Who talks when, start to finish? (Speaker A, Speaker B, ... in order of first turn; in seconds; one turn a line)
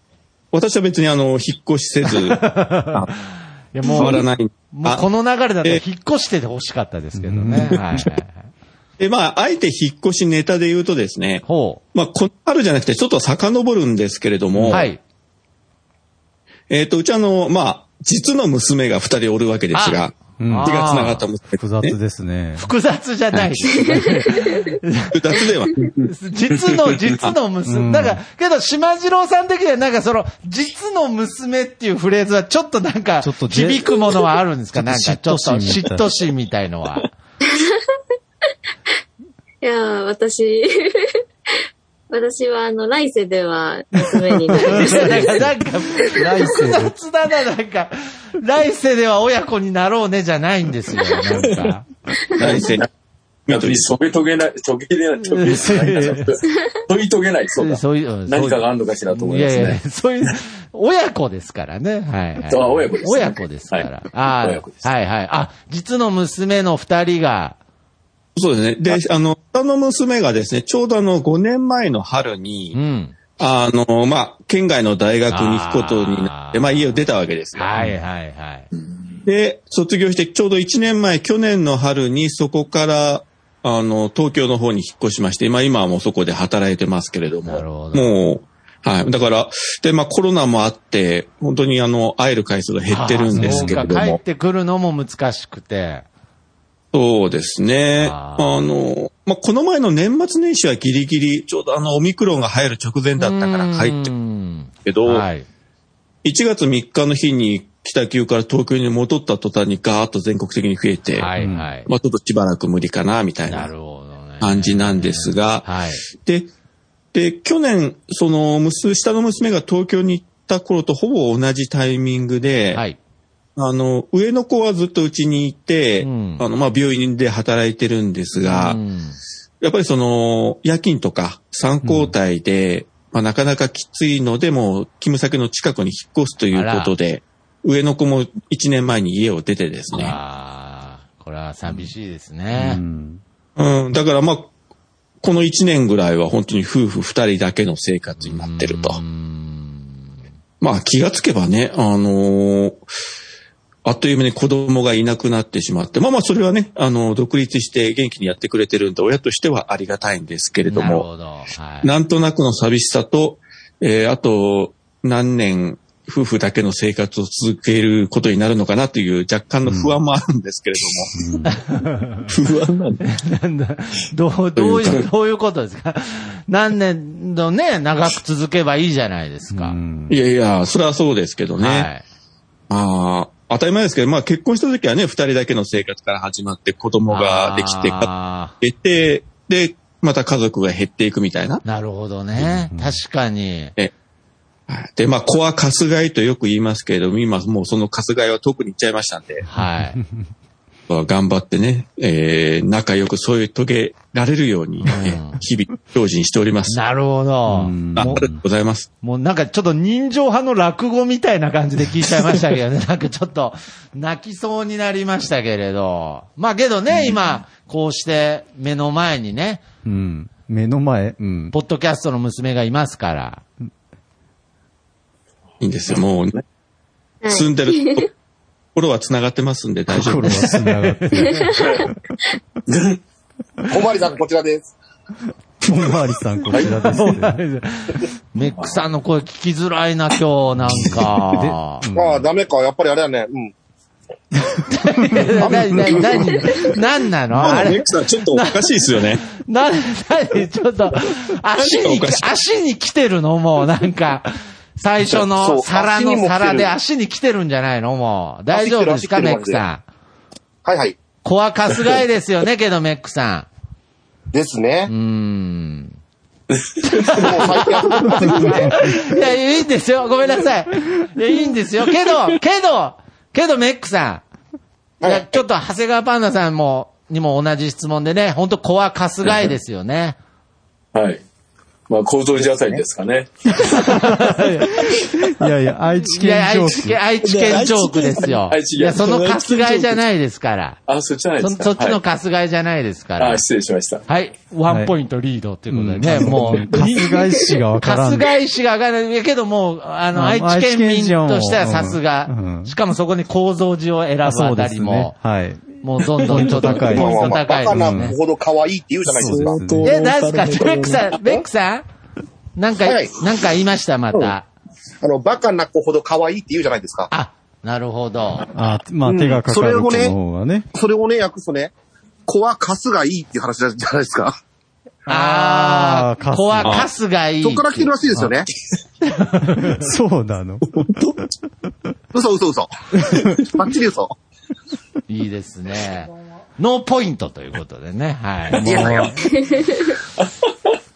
Speaker A: 0.5-2.4
Speaker B: 2.0-3.2
Speaker B: 3.7-8.5
Speaker A: 3.9-5.0
Speaker C: 7.2-7.8
Speaker A: 9.0-14.9
Speaker B: 11.4-11.8
Speaker B: 14.7-15.0
Speaker A: 16.7-21.9
Speaker B: 19.7-21.2
Speaker C: 20.4-20.7
Speaker C: 21.5-22.7
Speaker B: 22.6-25.1
Speaker D: 23.8-24.5
Speaker A: 25.1-25.9
Speaker B: 26.0-37.1
Speaker C: 27.6-28.2
Speaker C: 33.2-34.0
Speaker C: 34.7-36.1
Speaker D: 37.4-37.8
Speaker D: 39.6-41.1
Speaker D: 42.1-45.4
Speaker B: 44.6-51.8
Speaker C: 44.8-45.1
Speaker C: 46.1-46.9
Speaker A: 52.4-52.9
Speaker E: 52.4-52.9
Speaker A: 53.5-53.9
Speaker E: 53.5-59.8
Speaker B: 55.2-56.3
Speaker B: 57.6-67.6
Speaker E: 62.5-64.9
Speaker A: 68.3-72.8
Speaker B: 72.7-73.2
Speaker A: 73.4-77.8
Speaker B: 75.3-78.7
Speaker A: 79.2-94.2
Speaker B: 87.5-88.2
Speaker B: 92.9-96.0
Speaker C: 93.3-93.9
Speaker A: 96.9-104.1
Speaker B: 98.0-98.6
Speaker B: 103.2-105.5
Speaker A: 104.8-105.2
Speaker A: 106.2-111.3
Speaker B: 111.1-111.9
Speaker C: 111.3-111.7
Speaker A: 111.8-113.7
Speaker B: 113.5-116.0
Speaker A: 114.4-116.5
Speaker A: 117.1-122.8
Speaker A: 123.5-128.8
Speaker B: 126.0-126.5
Speaker B: 128.4-129.2
Speaker A: 129.6-140.2
Speaker C: 131.8-132.1
Speaker B: 136.5-136.9
Speaker B: 139.9-142.8
Speaker C: 142.5-143.2
Speaker A: 143.6-144.5
Speaker A: 145.2-149.0
Speaker B: 148.2-150.1
Speaker A: 150.6-152.8
Speaker A: 153.8-161.1
Speaker B: 160.6-161.9
Speaker A: 161.8-171.1
Speaker C: 169.7-169.9
Speaker C: 171.2-171.5
Speaker B: 171.5-172.2
Speaker F: 172.3-173.0
Speaker B: 173.0-179.8
Speaker A: 174.6-175.0
Speaker C: 179.5-180.2
Speaker A: 180.1-181.9
Speaker B: 181.6-182.0
Speaker A: 182.7-191.6
Speaker B: 187.1-188.5
Speaker B: 191.6-193.7
Speaker C: 192.4-193.0
Speaker A: 194.7-199.4
Speaker B: 199.5-200.0
Speaker C: 199.5-200.2
Speaker A: 200.9-206.8
Speaker B: 204.8-205.4
Speaker B: 206.7-208.3
Speaker C: 207.5-208.4
Speaker A: 207.9-208.9
Speaker B: 209.0-219.6
Speaker C: 219.8-221.5
Speaker B: 221.5-223.4
Speaker A: 225.6-226.4
Speaker D: 227.2-228.0
Speaker A: 227.3-228.1
Speaker A: 228.7-230.4
Speaker C: 229.9-231.6
Speaker B: 230.1-231.6
Speaker E: 232.7-233.0
Speaker G: 233.7-234.7
Speaker C: 235.6-237.4
Speaker B: 236.7-241.8
Speaker E: 238.6-238.8
Speaker C: 240.7-242.3
Speaker G: 241.9-243.5
Speaker B: 244.6-259.8
Speaker C: 245.0-246.2
Speaker G: 245.6-246.2
Speaker A: 247.4-249.2
Speaker A: 251.6-252.3
Speaker G: 255.3-256.7
Speaker G: 258.5-259.6
Speaker G: 260.6-261.0
Speaker B: 261.2-263.5
Speaker G: 264.3-264.9
Speaker B: 264.9-266.0
Speaker B: 266.8-274.2
Speaker G: 267.1-268.9
Speaker C: 268.2-268.7
Speaker G: 275.0-275.4
Speaker B: 275.0-280.2
Speaker E: 280.9-281.2
Speaker E: 281.9-283.3
Speaker G: 282.4-282.8
Speaker B: 283.6-285.0
Speaker C: 284.3-287.0
Speaker B: 286.1-290.8
Speaker F: 287.2-290.0
Speaker E: 288.5-289.0
Speaker E: 290.9-292.0
Speaker B: 291.4-293.4
Speaker E: 293.2-294.0
Speaker B: 294.1-297.1
Speaker C: 294.7-294.9
Speaker C: 295.7-298.3
Speaker B: 297.8-305.1
Speaker C: 300.1-302.7
Speaker C: 304.2-308.2
Speaker B: 305.8-308.1
Speaker G: 306.4-309.6
Speaker C: 309.1-309.9
Speaker F: 309.1-311.4
Speaker B: 309.8-311.8
Speaker B: 312.6-314.5
Speaker G: 312.8-313.1
Speaker G: 315.0-317.1
Speaker B: 317.1-318.5
Speaker C: 318.5-320.7
Speaker G: 319.1-320.1
Speaker G: 320.7-321.7
Speaker G: 322.3-324.3
Speaker C: 325.1-326.8
Speaker B: 325.1-327.9
Speaker A: 326.6-326.9
Speaker G: 327.4-328.5
Speaker B: 329.1-329.8
Speaker C: 329.7-330.8
Speaker G: 332.1-334.1
Speaker C: 333.1-333.4
Speaker B: 335.1-339.2
Speaker G: 338.6-339.2
Speaker D: 339.4-339.6